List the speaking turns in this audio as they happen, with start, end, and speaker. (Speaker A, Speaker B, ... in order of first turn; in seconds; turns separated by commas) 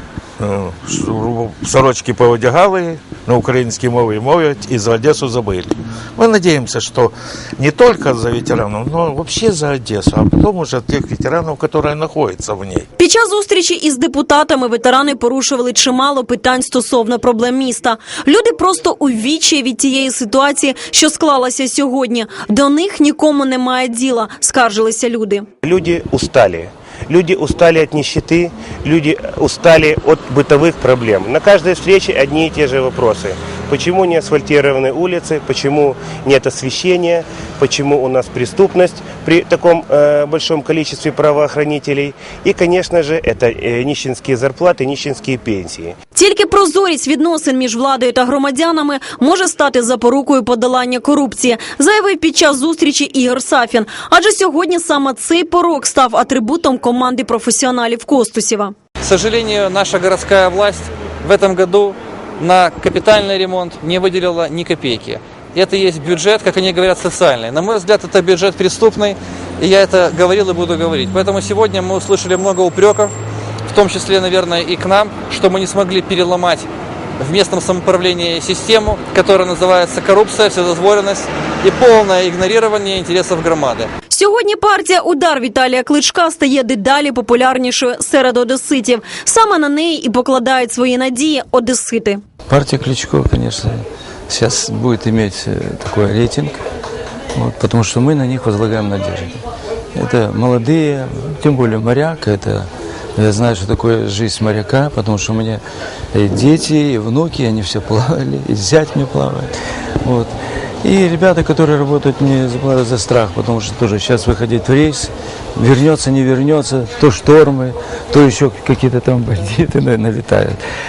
Speaker A: 0.4-12.9, Speaker B: 13.0-25.5, Speaker C: 25.6-46.0, Speaker B: 46.1-58.7, Speaker D: 59.0-73.1, Speaker D: 73.7-76.7, Speaker D: 77.2-83.9, Speaker B: 84.1-92.2, Speaker E: 92.5-96.6, Speaker E: 97.3-99.4, Speaker E: 100.0-109.5, Speaker E: 110.0-120.6